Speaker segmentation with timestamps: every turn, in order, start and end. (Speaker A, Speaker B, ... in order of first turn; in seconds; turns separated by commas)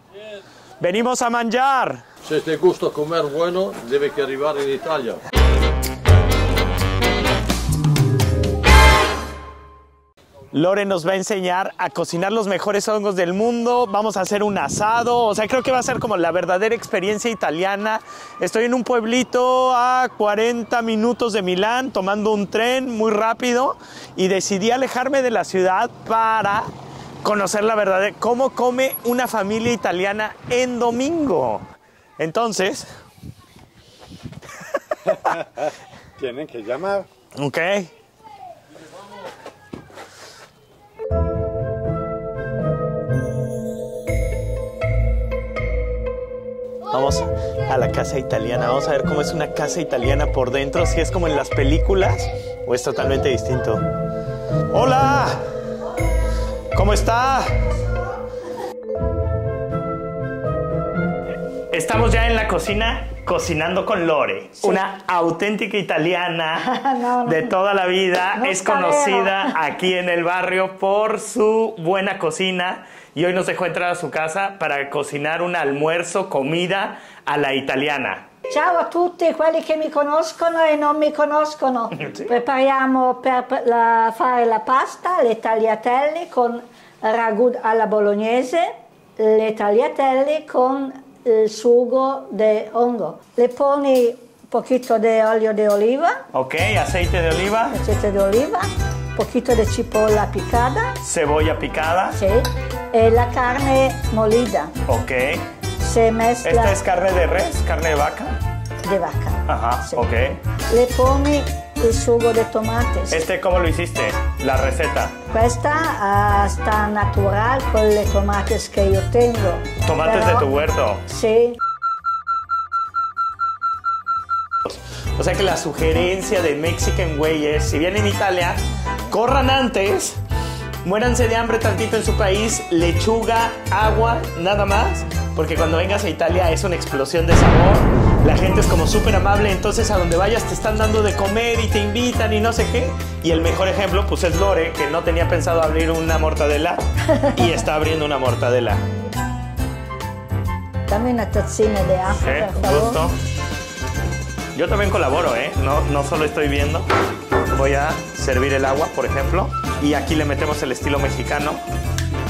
Speaker A: 0.8-2.0, Speaker B: 2.2-5.2, Speaker A: 10.5-26.7, Speaker A: 27.2-31.6, Speaker A: 32.2-32.9, Speaker C: 35.1-37.0, Speaker A: 37.4-37.9, Speaker A: 46.9-53.8, Speaker A: 54.7-55.5, Speaker A: 56.7-57.5, Speaker A: 61.7-66.7, Speaker D: 66.6-67.5, Speaker A: 67.2-78.2, Speaker D: 68.3-69.5, Speaker D: 78.5-96.2, Speaker A: 81.9-82.3, Speaker A: 96.3-97.8, Speaker D: 97.7-101.0, Speaker A: 101.0-102.2, Speaker D: 102.1-104.7, Speaker A: 104.9-105.4, Speaker D: 105.8-106.8, Speaker A: 106.4-108.3, Speaker D: 108.8-110.0, Speaker A: 109.5-110.4, Speaker D: 110.7-113.2, Speaker A: 113.1-115.2, Speaker D: 115.3-120.5, Speaker A: 119.8-121.0, Speaker D: 121.1-121.6, Speaker A: 124.7-130.2, Speaker A: 130.8-148.8, Speaker D: 147.2-147.5, Speaker D: 150.9-153.0, Speaker A: 152.1-153.2, Speaker A: 154.6-156.9, Speaker A: 157.5-161.6